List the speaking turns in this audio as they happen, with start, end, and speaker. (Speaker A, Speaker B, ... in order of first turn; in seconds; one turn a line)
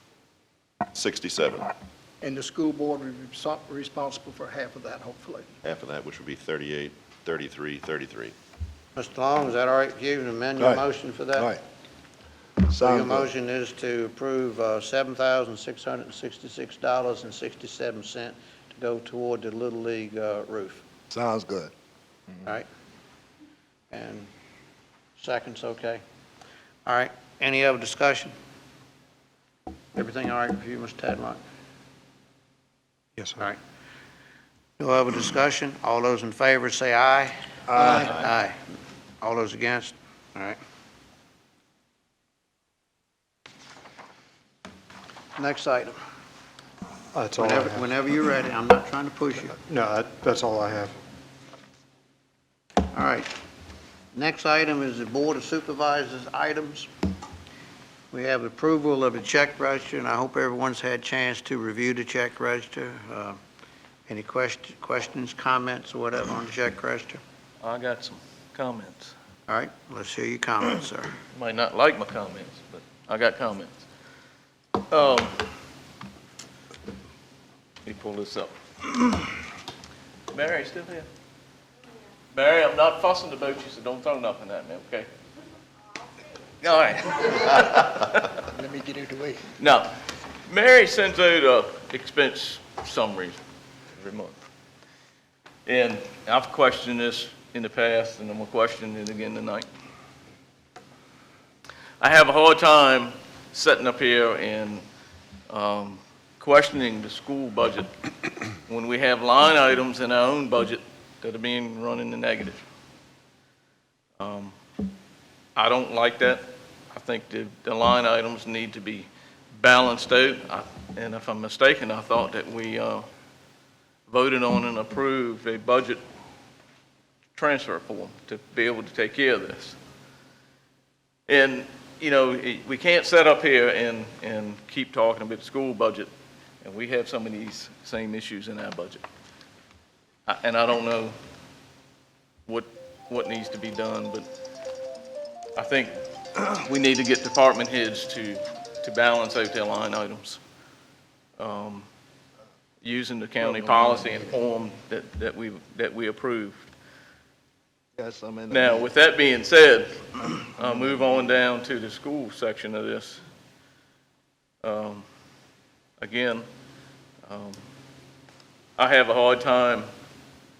Speaker A: 0.9-1.7
Speaker B: 2.2-5.5
Speaker A: 5.6-8.3
Speaker C: 8.9-11.5
Speaker D: 10.6-11.6
Speaker D: 12.7-13.3
Speaker C: 12.8-20.8
Speaker D: 21.1-21.7
Speaker C: 23.9-24.3
Speaker C: 25.2-26.0
Speaker C: 26.9-28.3
Speaker C: 29.9-31.4
Speaker E: 33.2-33.4
Speaker C: 34.8-38.6
Speaker C: 39.2-40.6
Speaker C: 45.4-45.9
Speaker E: 47.1-47.9
Speaker C: 47.4-49.6
Speaker E: 49.6-50.9
Speaker C: 52.9-53.3
Speaker C: 54.1-56.9
Speaker C: 58.1-63.4
Speaker C: 64.1-67.2
Speaker F: 67.6-69.1
Speaker C: 69.5-71.2
Speaker F: 71.3-73.8
Speaker F: 74.9-75.4
Speaker F: 77.8-79.4
Speaker F: 80.3-81.1
Speaker F: 82.3-85.1
Speaker F: 86.6-88.3
Speaker B: 88.5-89.5
Speaker F: 89.6-89.9
Speaker F: 90.5-93.4
Speaker F: 94.0-94.3
Speaker F: 95.7-99.7
Speaker F: 102.0-104.8
Speaker F: 105.5-107.9
Speaker F: 108.7-112.6
Speaker F: 114.2-114.5
Speaker F: 115.5-123.0
Speaker F: 124.1-126.0
Speaker F: 127.3-129.8
Speaker F: 131.3-136.1
Speaker F: 136.6-139.0
Speaker F: 140.3-141.1
Speaker F: 142.5-144.3
Speaker F: 145.6-150.4
Speaker F: 151.4-151.9
Speaker F: 152.8-156.7
Speaker D: 158.0-158.9
Speaker F: 158.5-163.2
Speaker F: 164.6-165.0
Speaker F: 166.0-166.4
Speaker F: 167.2-167.6
Speaker F: 168.8-169.9